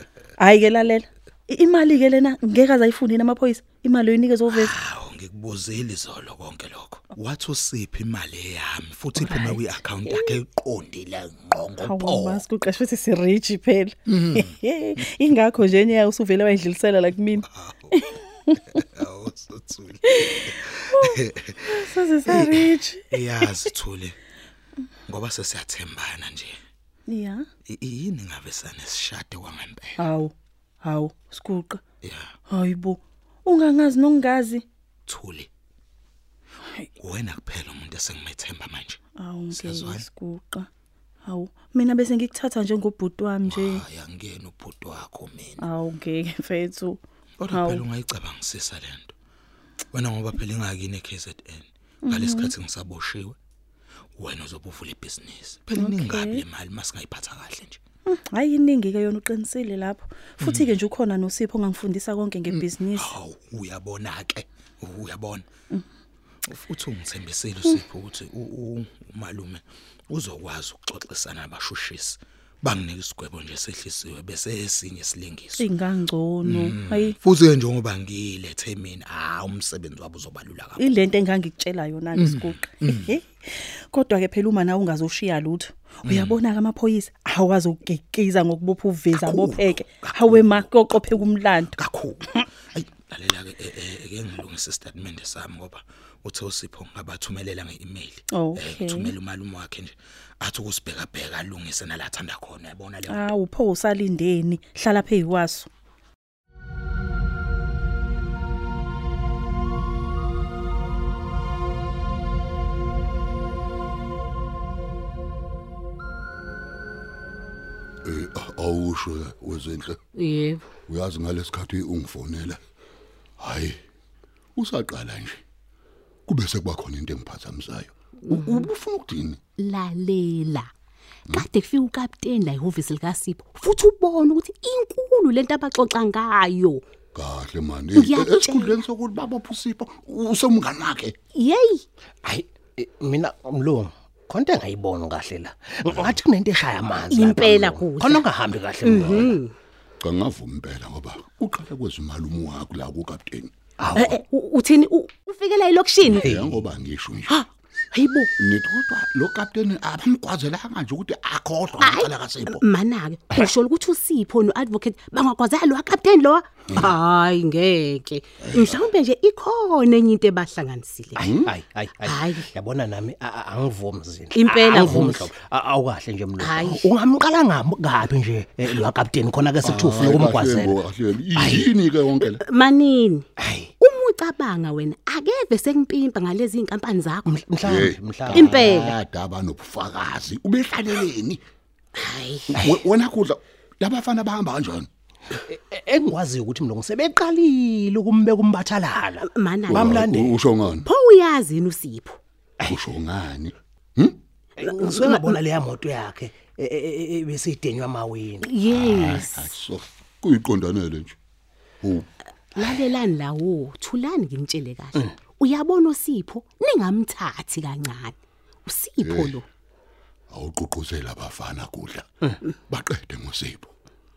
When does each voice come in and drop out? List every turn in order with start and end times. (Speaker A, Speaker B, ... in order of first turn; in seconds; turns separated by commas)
Speaker A: 0.4-4.7, Speaker B: 4.5-12.4, Speaker A: 11.8-18.6, Speaker B: 14.1-14.6, Speaker B: 17.5-18.0, Speaker B: 18.7-24.2, Speaker A: 20.2-23.4, Speaker B: 25.1-26.5, Speaker A: 27.1-27.4, Speaker B: 27.7-30.1, Speaker A: 30.0-31.8, Speaker B: 32.0-32.3, Speaker A: 32.5-34.6, Speaker B: 35.1-35.5, Speaker B: 37.0-39.0, Speaker A: 39.2-40.7, Speaker B: 39.5-40.1, Speaker A: 41.3-43.8, Speaker B: 43.5-45.6, Speaker A: 45.6-47.0, Speaker B: 47.4-49.1, Speaker A: 47.5-47.8, Speaker B: 49.9-53.4, Speaker A: 52.0-52.5, Speaker B: 54.2-57.8, Speaker A: 55.8-56.4, Speaker A: 58.1-63.1, Speaker B: 60.4-60.7, Speaker B: 62.5-65.5, Speaker B: 66.5-75.7, Speaker A: 75.6-77.2, Speaker B: 76.5-80.8, Speaker A: 80.8-91.8, Speaker B: 82.2-83.1, Speaker B: 86.0-86.4, Speaker B: 89.2-90.7, Speaker B: 91.8-103.3, Speaker A: 98.3-99.1, Speaker A: 103.1-105.7, Speaker C: 118.0-120.0, Speaker D: 120.2-120.6, Speaker C: 120.9-122.6, Speaker C: 123.4-123.8, Speaker C: 124.6-125.4, Speaker C: 126.3-129.4, Speaker D: 128.3-128.7, Speaker D: 129.6-130.7, Speaker D: 131.3-136.8, Speaker C: 137.1-141.2, Speaker D: 137.9-138.8, Speaker D: 141.4-141.8, Speaker E: 142.2-149.4, Speaker D: 147.1-148.3, Speaker D: 148.8-149.5, Speaker C: 148.9-149.3, Speaker C: 150.0-153.5, Speaker E: 153.8-154.2, Speaker D: 154.0-156.2, Speaker C: 156.0-157.4, Speaker E: 156.2-156.6, Speaker D: 157.3-158.3, Speaker C: 158.4-162.6, Speaker D: 161.8-171.3, Speaker C: 168.5-168.8, Speaker C: 171.2-171.5, Speaker E: 171.2-182.2, Speaker D: 172.0-172.5, Speaker D: 174.3-175.3, Speaker D: 176.4-176.8, Speaker C: 179.6-182.4, Speaker D: 182.4-183.2, Speaker E: 183.4-183.7, Speaker D: 183.8-187.4, Speaker E: 187.2-189.0, Speaker C: 187.7-191.4, Speaker D: 188.3-188.9, Speaker D: 192.0-192.5, Speaker E: 192.5-192.9, Speaker C: 192.5-194.9, Speaker E: 195.5-200.4, Speaker D: 199.3-199.8, Speaker C: 199.7-200.9, Speaker D: 200.8-202.2, Speaker E: 202.6-202.9, Speaker C: 202.7-204.2, Speaker E: 204.6-208.5, Speaker D: 204.7-205.3, Speaker D: 208.4-209.5, Speaker C: 208.7-211.2, Speaker C: 211.8-212.1, Speaker D: 212.6-218.2, Speaker D: 218.7-219.4, Speaker C: 219.0-219.4, Speaker C: 220.3-222.1, Speaker C: 222.7-223.7